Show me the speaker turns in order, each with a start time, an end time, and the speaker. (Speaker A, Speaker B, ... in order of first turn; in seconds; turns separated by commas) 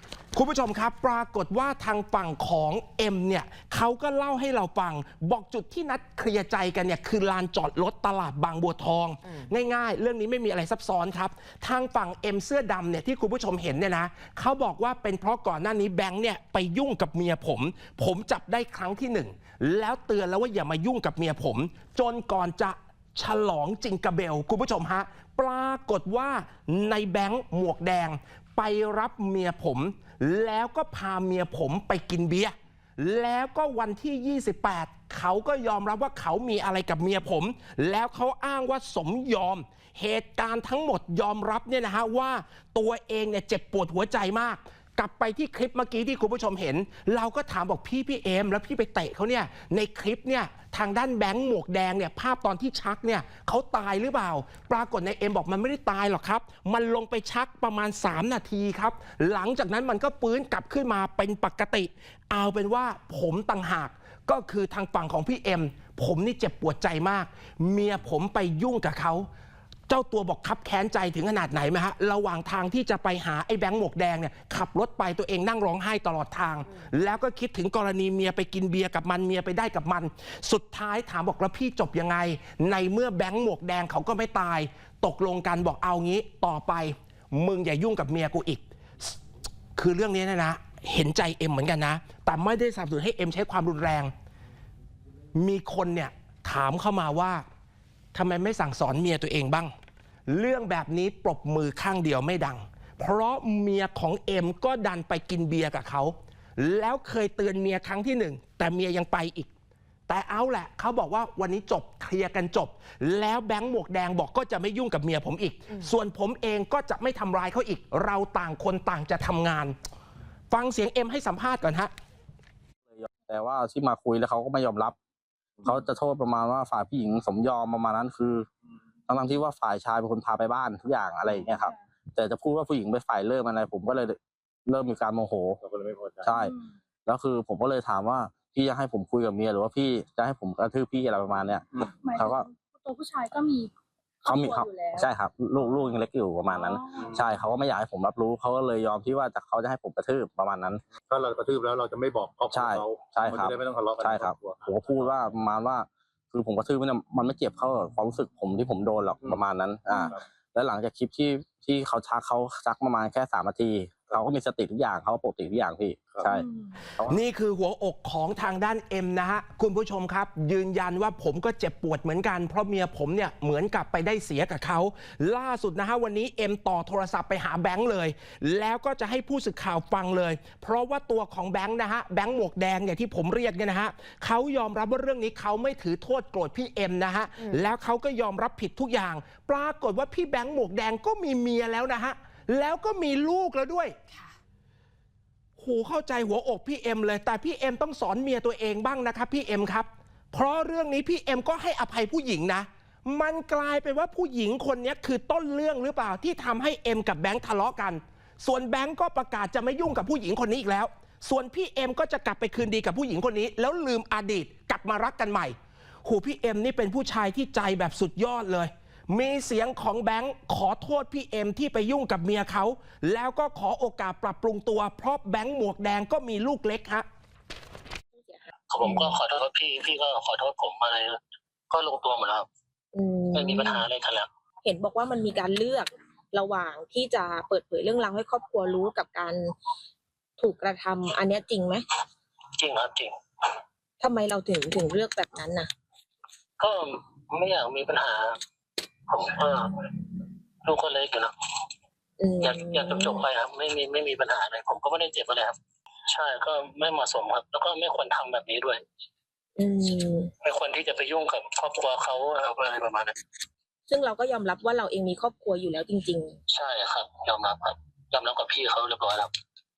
Speaker A: 0.3-69.3, Speaker A: 69.9-89.2, Speaker A: 89.8-94.1, Speaker A: 95.3-97.4, Speaker A: 98.1-99.7, Speaker A: 100.3-109.5, Speaker A: 110.1-119.8, Speaker A: 120.5-121.9, Speaker B: 122.9-124.9, Speaker B: 125.6-128.5, Speaker B: 129.1-135.6, Speaker C: 135.6-136.3, Speaker B: 136.2-142.5, Speaker D: 142.1-143.7, Speaker D: 144.2-145.1, Speaker B: 144.2-150.8, Speaker D: 146.5-147.0, Speaker C: 151.1-155.2, Speaker B: 152.5-167.2, Speaker A: 167.1-193.9, Speaker A: 195.6-227.1, Speaker E: 228.2-229.1, Speaker F: 228.7-231.2, Speaker F: 231.7-232.5, Speaker E: 232.9-233.8, Speaker F: 233.3-234.3, Speaker E: 234.6-239.5, Speaker E: 240.4-241.8, Speaker F: 242.6-243.1, Speaker E: 244.0-245.7, Speaker F: 246.6-248.4, Speaker F: 249.1-249.8, Speaker F: 250.6-251.3, Speaker E: 252.2-253.2, Speaker F: 252.4-255.6, Speaker F: 256.1-258.8, Speaker E: 259.6-260.3, Speaker F: 260.4-263.2, Speaker E: 263.9-266.4, Speaker F: 266.5-269.3